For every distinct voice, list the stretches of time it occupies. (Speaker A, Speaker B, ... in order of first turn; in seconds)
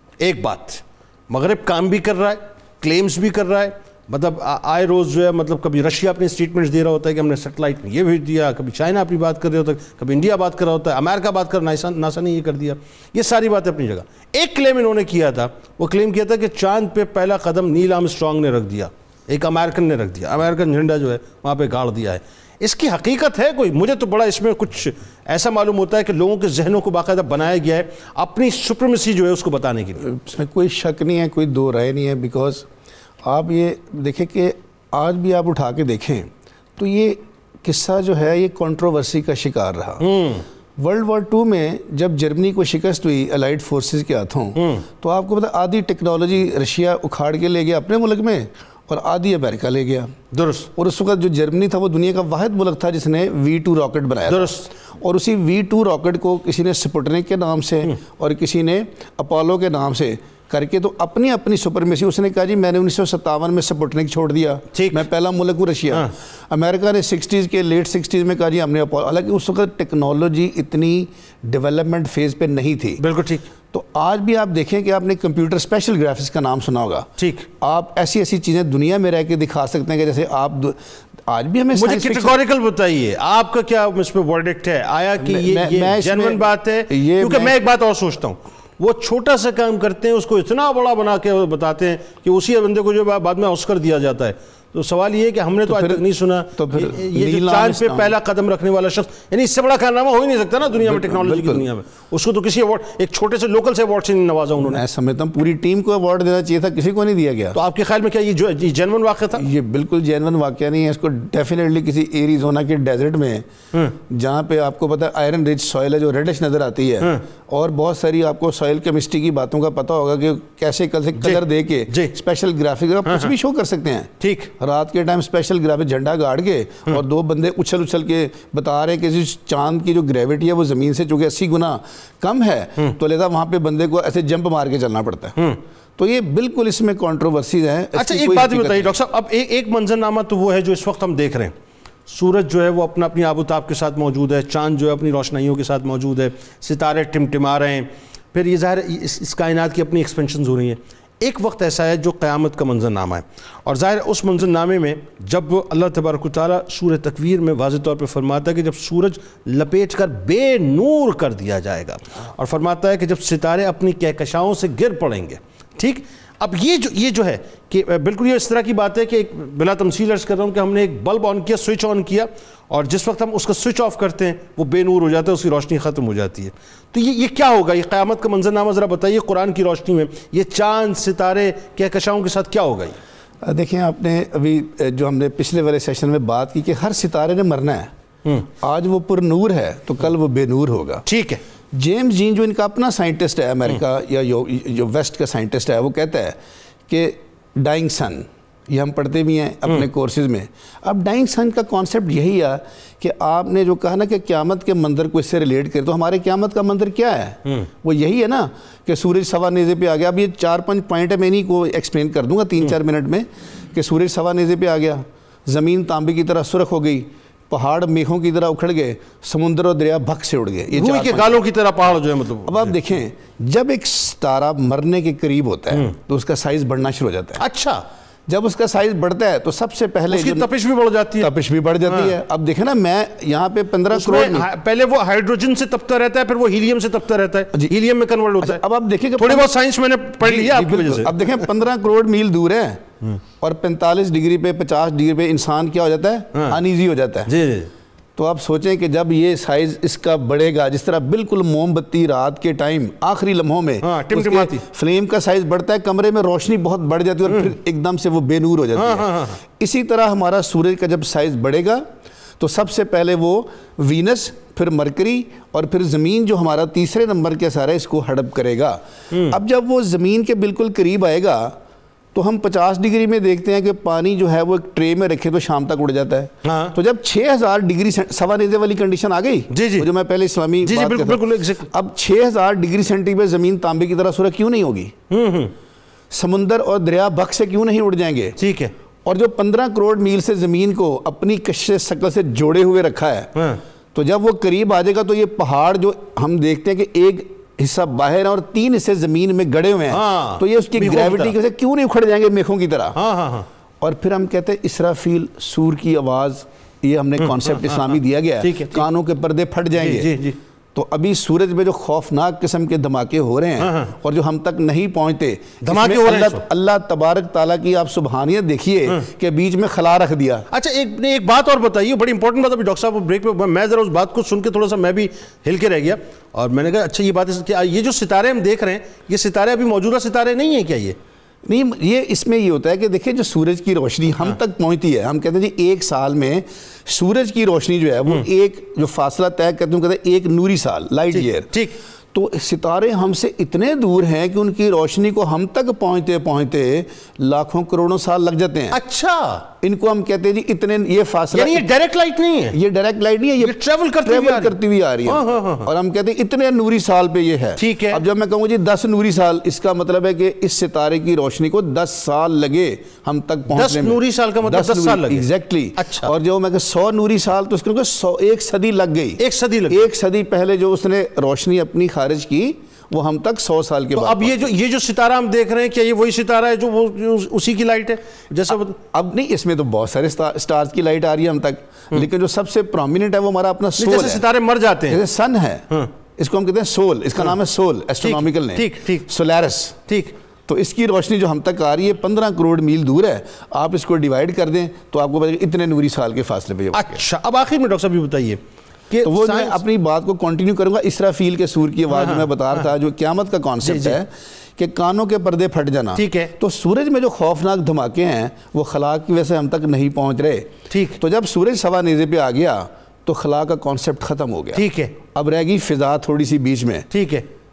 Speaker A: 0.2-30.1, 40.0-40.5, 44.6-44.9, 50.3-50.7, 54.3-54.7, 64.7-65.0, 73.0-73.5, 77.2-77.5, 81.7-104.8, 107.5-109.5, 121.2-122.1, 123.1-123.3, 124.2-124.5, 137.9-141.5, 142.1-183.0, 191.1-191.4, 220.7-222.8, 227.4-227.8, 230.1-231.3, 231.8-232.2, 233.9-238.6, 239.2-241.5, 247.3-247.7, 253.8-254.6, 258.8-259.4, 269.1-269.4, 276.4-276.8, 279.5-279.9, 280.6-281.7, 285.1-285.5, 288.4-288.7, 293.4-293.6, 299.9-301.4, 302.9-303.5, 307.2-308.9, 309.8-310.4, 313.6-313.9, 315.6-316.4, 320.5-331.0, 341.1-341.8, 348.7-349.4, 351.3-352.6, 353.4-355.7, 357.6-358.0, 363.5-366.1, 369.2-369.9, 373.9-378.8, 383.8-385.0, 388.0-389.1, 389.9-390.1, 396.7-399.6, 401.9-402.7, 403.6-404.0, 406.0-406.3, 410.7-411.0, 414.5-414.9, 416.9-417.2
Speaker B: 30.0-32.7, 33.2-40.1, 40.8-50.1, 50.8-73.0, 73.7-77.1, 77.6-82.4, 85.2-87.6, 95.7-98.2, 100.8-101.7, 104.6-107.6, 109.3-135.4, 136.0-139.0, 183.4-187.9, 188.5-191.1, 191.7-196.4, 196.9-221.4, 222.5-227.4, 228.3-230.5, 231.2-234.5, 238.4-239.5, 240.2-242.8, 243.4-247.3, 248.2-261.8, 262.4-271.6, 272.1-284.9, 286.1-288.4, 289.1-293.3, 293.9-303.0, 303.8-310.2, 310.7-320.5, 331.5-341.5, 342.1-348.8, 349.6-351.7, 352.5-374.5, 378.8-384.2, 384.9-385.7, 386.2-389.8, 390.5-397.0, 399.0-416.9